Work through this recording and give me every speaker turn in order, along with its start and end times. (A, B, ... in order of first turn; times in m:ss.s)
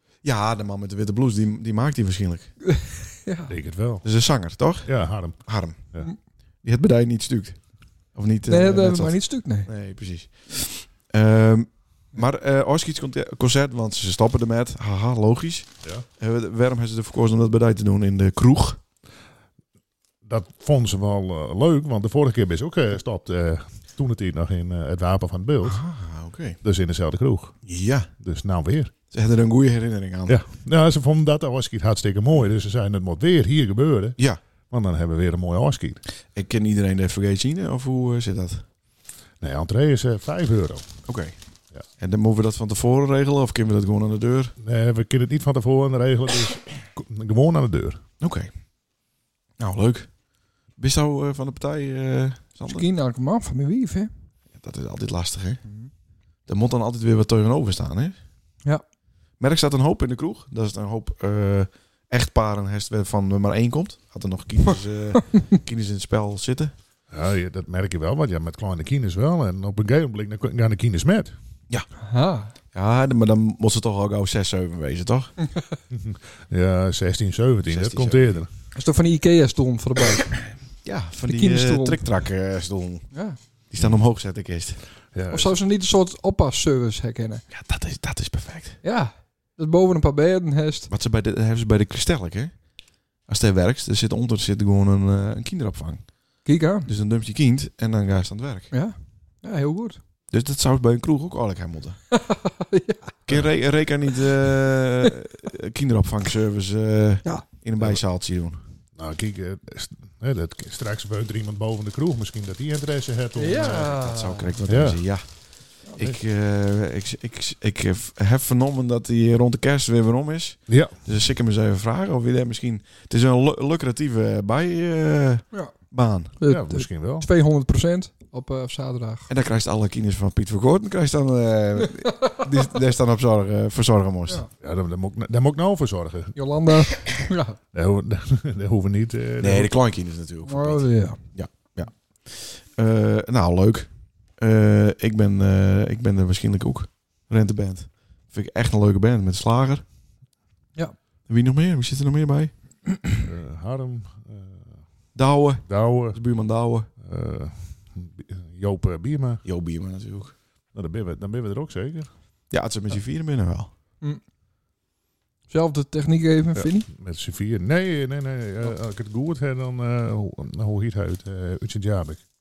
0:00.2-0:02.5 A
0:02.6-0:03.5 B
0:03.5-0:04.0 C
0:04.0-0:05.8 A
0:04.8-0:06.1 C
0:06.6-0:07.6 A
0:08.1-0:18.8 A
0:08.5-0:09.7 B
0:20.2-0:25.8 C
0:25.6-0:26.6 A
0:26.6-0:27.6 C
0:27.6-0:28.1 A
0:28.2-0:28.9 C
0:29.1-0:30.4 A
0:30.3-0:34.2 C
0:34.7-0:36.0 C
0:36.3-0:38.6 A
0:39.4-0:40.9 C
0:41.1-0:41.3 A
0:42.0-0:44.5 A
0:44.6-0:48.0 C
0:48.2-0:48.5 A
0:49.6-0:50.1 A
0:50.8-0:52.8 A
0:52.6-0:54.1 B
0:54.6-0:55.6 A
0:55.6-0:55.9 B
0:56.5-0:58.2 A
0:59.4-1:06.7 A
1:07.1-1:11.3 C
1:12.0-1:12.5 B
1:12.7-1:15.3 A
1:15.9-1:18.5 C
1:17.7-1:18.4 A
1:18.7-1:20.4 B
1:20.8-1:23.1 A
1:21.2-1:22.0 B
1:23.1-1:23.4 B
1:23.7-1:24.8 A
1:25.1-1:25.5 C
1:25.3-1:27.4 B
1:27.5-1:28.8 A
1:28.8-1:30.9 B
1:30.9-1:32.5 A
1:33.3-1:36.1 A
1:36.4-1:36.9 B
1:36.8-1:38.7 A
1:38.7-1:40.0 B
1:40.3-1:42.0 A
1:42.1-1:43.1 B
1:43.3-1:48.6 A
1:49.0-1:54.0 C
1:53.4-1:54.5 B
1:53.9-1:55.2 A
1:54.6-1:55.0 C
1:56.0-2:06.4 A
2:00.7-2:00.9 C
2:06.4-2:09.3 B
2:06.4-2:07.3 C
2:09.3-2:14.4 A
2:14.6-2:16.3 C
2:16.4-2:17.6 B
2:17.7-2:19.7 C
2:19.4-2:29.8 A
2:20.5-2:21.2 B
2:31.3-2:32.5 A
2:33.2-2:34.7 C
2:35.1-2:36.9 A
2:35.6-2:36.2 C
2:37.0-2:39.4 C
2:39.4-2:40.3 A
2:40.7-2:42.1 C
2:42.5-2:43.7 A
2:45.5-2:46.9 B
2:46.6-2:52.2 C